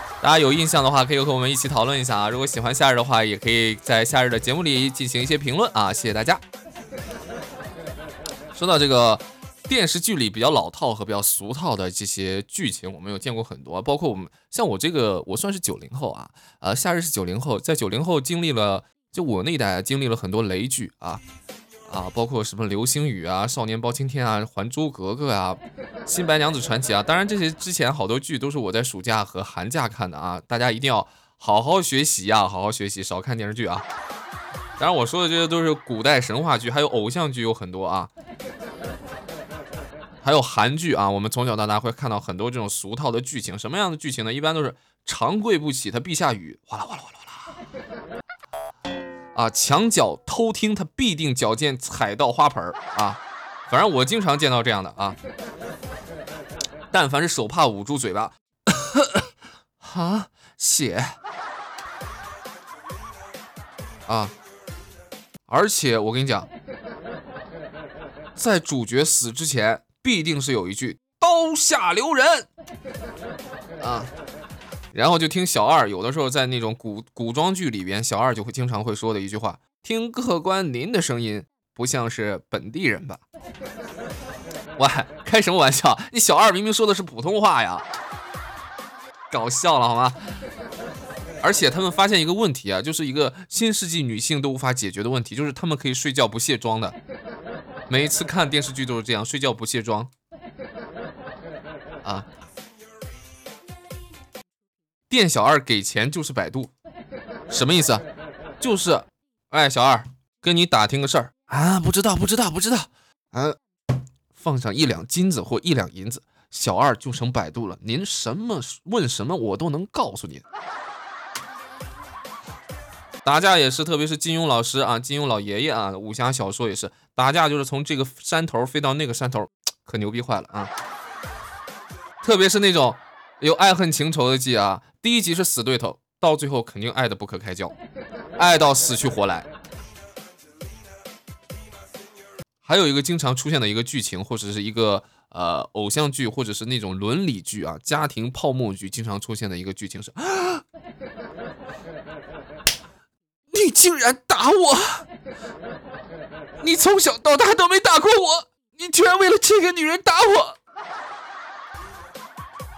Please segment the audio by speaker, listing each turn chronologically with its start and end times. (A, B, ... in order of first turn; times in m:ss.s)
0:00.2-0:06.4 A
0:08.5-0:21.2 A
0:21.9-0:33.8 A
0:34.8-0:38.1 A
0:40.2-0:47.5 A
0:49.3-0:55.2 A
0:56.9-1:01.2 A
1:04.1-1:04.3 A
1:05.5-1:06.5 A
1:08.4-1:12.5 A
1:13.8-1:14.1 A
1:14.9-1:23.2 A
1:24.8-1:27.8 A
1:29.3-1:30.2 A
1:31.4-1:37.0 A
1:37.9-1:40.1 A
1:45.1-1:46.7 A
1:47.5-1:48.0 A
1:48.6-1:53.6 A
1:54.3-2:00.4 A
2:03.2-2:10.7 A
2:12.2-2:17.7 A
2:18.4-2:19.5 A
2:22.6-2:30.6 A
2:33.5-2:35.1 A
2:36.6-2:40.6 A